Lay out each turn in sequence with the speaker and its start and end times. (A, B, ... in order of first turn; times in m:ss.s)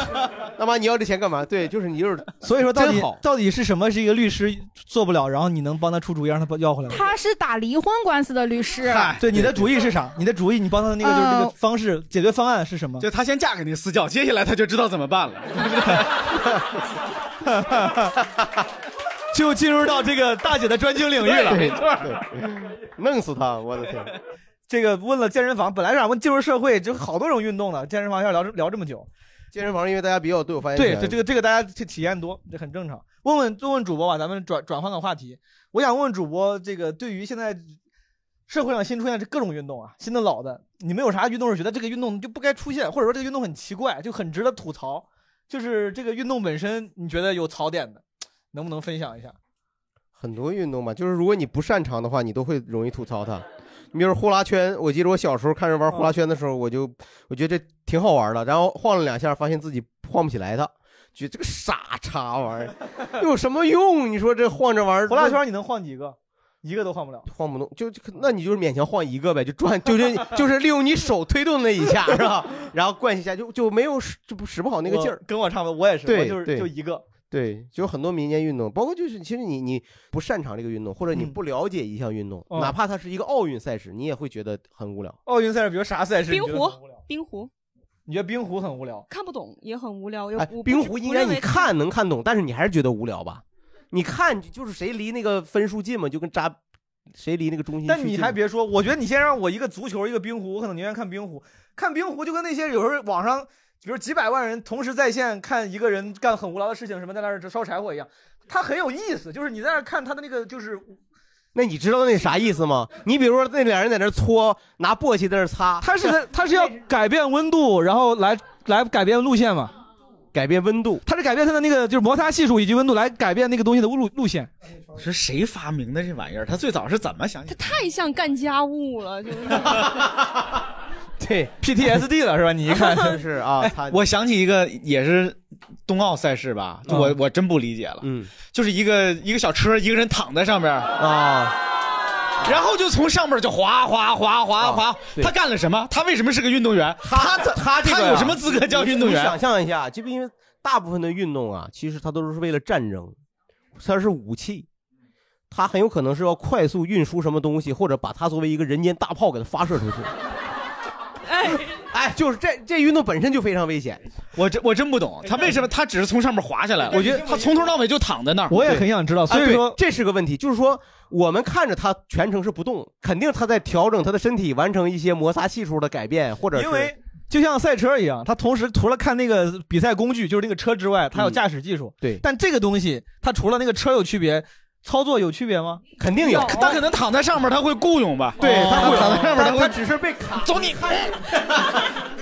0:00.4-0:03.2 A
0:02.4-0:07.0 B
0:06.9-0:09.2 C
0:08.8-0:09.2 D
0:09.2-0:13.1 B
0:11.0-0:11.5 C
0:13.0-0:16.5 D
0:17.5-0:18.2 B
0:19.3-0:21.7 B
0:21.4-0:22.1 D
0:21.5-0:24.1 A
0:24.7-0:29.1 B
0:29.5-0:31.2 A
0:30.8-0:37.7 B
0:38.5-0:49.3 B
0:50.2-1:05.4 A
1:05.1-1:07.3 B
1:07.3-1:15.2 A
1:14.8-1:17.0 B
1:16.0-1:16.7 A
1:17.3-1:25.2 A
1:25.3-1:26.8 B
1:26.3-1:27.5 E
1:28.1-1:29.0 B
1:29.1-1:31.7 E
1:30.4-1:36.6 A
1:37.1-1:38.4 A
1:37.9-1:51.0 B
1:51.6-1:55.9 A
1:55.8-1:59.7 B
2:00.3-2:01.0 A
2:01.1-2:04.5 B
2:05.0-2:07.7 D
2:07.5-2:10.0 E
2:11.2-2:11.6 A
2:11.6-2:13.8 B
2:12.9-2:14.0 A
2:13.8-2:20.9 D
2:18.0-2:18.3 A
2:21.0-2:21.6 A
2:22.4-2:29.4 D
2:24.6-2:25.3 A
2:27.0-2:33.2 A
2:33.8-2:34.7 A
2:35.5-2:40.1 A
2:41.3-2:41.7 E
2:41.7-2:44.0 A
2:44.4-2:48.6 D
2:46.9-2:47.3 A
2:47.0-2:47.4 B
2:48.5-2:49.8 B
2:48.6-2:56.9 A
2:56.6-3:05.8 B
3:01.1-3:01.4 A
3:06.0-3:06.7 A
3:06.3-3:09.8 D
3:06.3-3:06.6 B
3:08.4-3:11.8 A
3:08.4-3:09.4 B
3:10.4-3:11.2 D